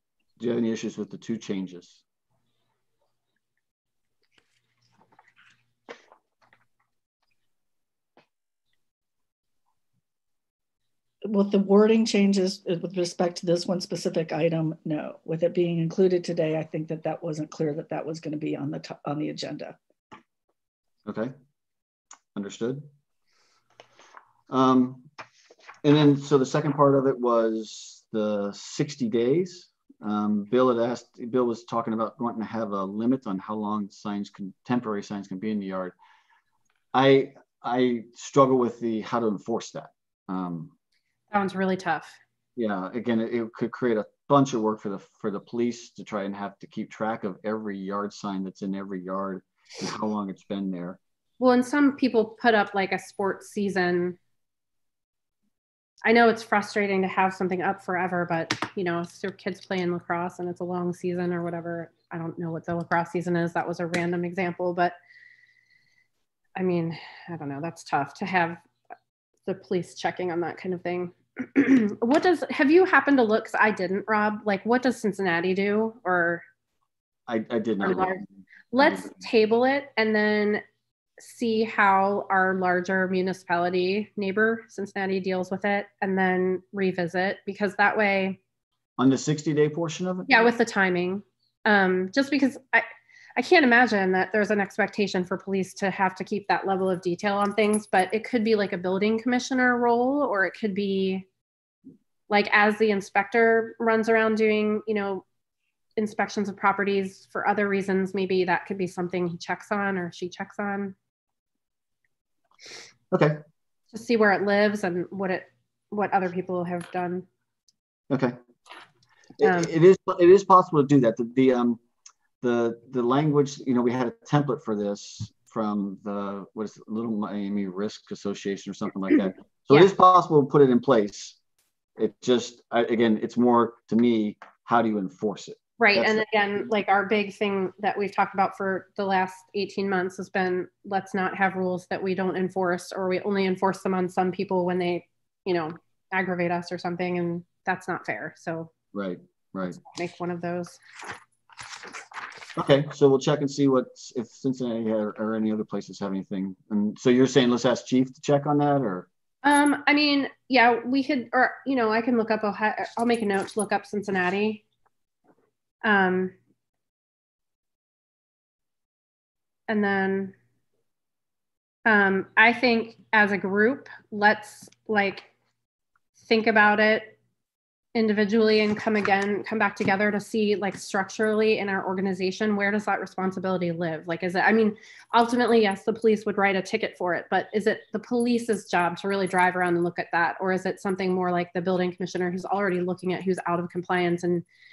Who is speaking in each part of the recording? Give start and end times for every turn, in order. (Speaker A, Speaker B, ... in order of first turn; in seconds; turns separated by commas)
Speaker A: 0.4-2.0, Speaker B: 11.2-19.8, Speaker A: 21.1-21.3, Speaker A: 22.3-22.9, Speaker A: 24.5-25.1, Speaker A: 25.8-35.9, Speaker A: 36.9-40.7, Speaker C: 41.3-42.2, Speaker A: 42.5-51.0, Speaker C: 51.4-54.2, Speaker C: 56.0-64.9, Speaker C: 66.5-68.6, Speaker C: 69.5-76.4, Speaker A: 77.3-79.2, Speaker C: 77.8-80.6, Speaker C: 81.2-88.4, Speaker A: 89.0-90.5, Speaker C: 90.3-101.2, Speaker C: 102.3-105.2, Speaker C: 106.0-110.9, Speaker A: 113.1-113.4, Speaker C: 113.9-117.2, Speaker A: 118.1-118.4, Speaker A: 119.4-121.8, Speaker C: 119.4-119.7, Speaker A: 122.4-131.3, Speaker A: 132.0-136.2, Speaker C: 135.8-148.7, Speaker A: 148.9-149.8, Speaker C: 149.8-150.8, Speaker A: 152.6-159.1, Speaker C: 159.4-164.6, Speaker C: 165.8-166.3, Speaker C: 169.7-170.3, Speaker C: 171.8-175.3, Speaker C: 176.2-177.2, Speaker C: 177.9-194.4